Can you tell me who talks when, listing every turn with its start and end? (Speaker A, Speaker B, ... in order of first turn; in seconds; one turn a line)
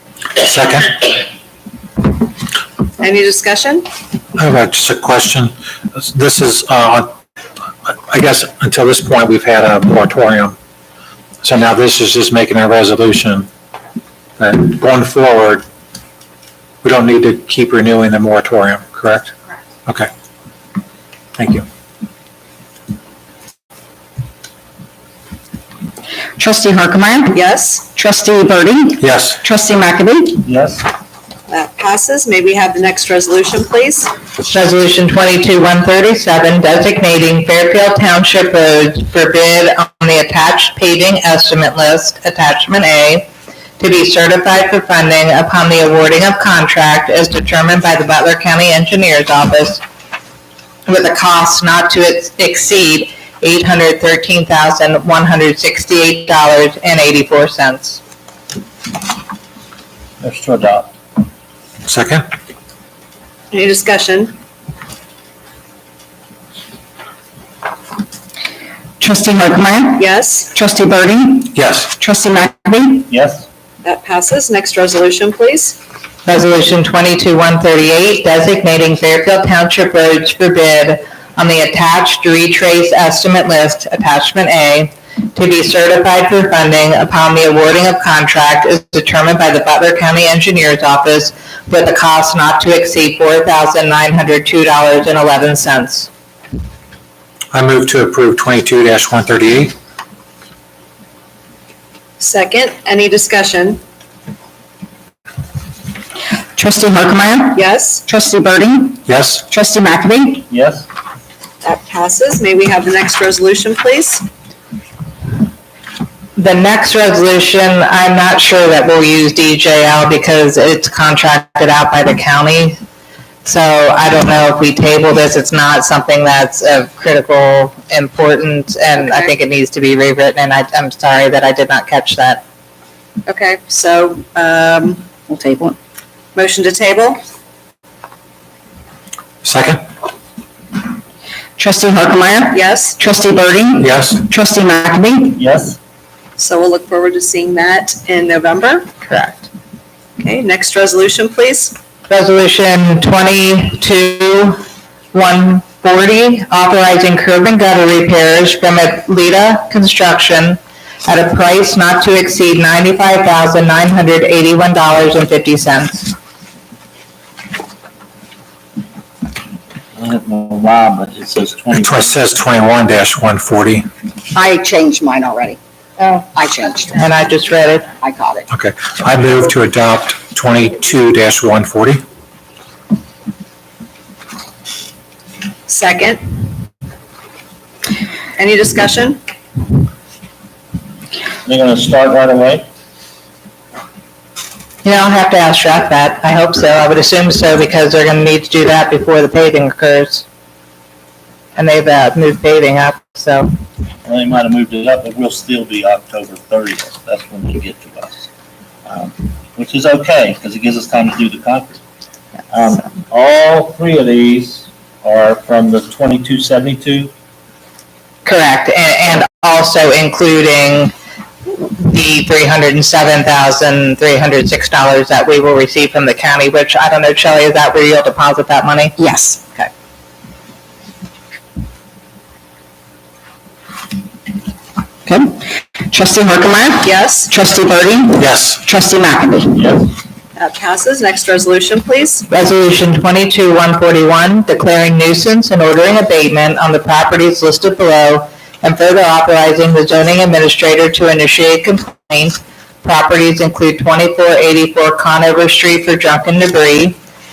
Speaker A: 0.4-1.2
Speaker B: 3.0-3.9
Speaker A: 4.4-7.1
Speaker A: 7.9-10.6
Speaker A: 11.4-13.5
Speaker A: 14.4-15.6
Speaker A: 16.8-19.3
Speaker A: 21.4-21.7
Speaker C: 26.4-30.4
Speaker B: 27.3-27.9
Speaker A: 29.0-29.4
Speaker D: 30.4-30.9
Speaker B: 31.5-34.1
Speaker E: 34.4-49.8
Speaker E: 50.9-58.0
Speaker D: 60.2-60.9
Speaker A: 61.9-62.2
Speaker B: 63.5-64.4
Speaker C: 69.0-73.1
Speaker B: 70.0-70.5
Speaker A: 71.5-71.9
Speaker D: 73.1-73.5
Speaker B: 73.8-75.8
Speaker E: 76.3-96.1
Speaker A: 97.5-99.8
Speaker B: 102.2-103.8
Speaker C: 106.6-110.5
Speaker B: 107.5-108.0
Speaker A: 109.1-109.4
Speaker D: 110.5-110.9
Speaker B: 111.6-114.2
Speaker E: 116.4-122.8
Speaker E: 123.5-132.4
Speaker B: 129.0-129.3
Speaker B: 133.3-135.0
Speaker C: 135.3-135.8
Speaker B: 136.3-137.2
Speaker A: 139.4-139.8
Speaker C: 141.6-145.4
Speaker B: 142.5-143.0
Speaker A: 143.8-144.2
Speaker D: 145.4-145.8
Speaker B: 146.4-148.9
Speaker E: 149.1-149.5
Speaker B: 150.2-151.8
Speaker E: 152.1-154.6
Speaker E: 155.1-166.1
Speaker D: 170.0-172.1
Speaker A: 171.8-173.9
Speaker F: 174.3-177.0
Speaker E: 177.0-177.9
Speaker F: 178.0-178.5
Speaker A: 178.5-182.0
Speaker B: 185.7-186.2
Speaker B: 188.4-189.2
Speaker D: 191.4-192.7
Speaker E: 194.8-200.2
Speaker E: 201.6-203.5
Speaker D: 204.1-208.2
Speaker D: 208.9-211.8
Speaker D: 212.5-217.1
Speaker E: 218.2-220.9
Speaker E: 221.6-229.0
Speaker C: 229.0-229.4
Speaker C: 235.1-239.6
Speaker B: 236.8-237.3
Speaker A: 238.2-238.6
Speaker B: 240.4-242.3
Speaker E: 242.3-257.0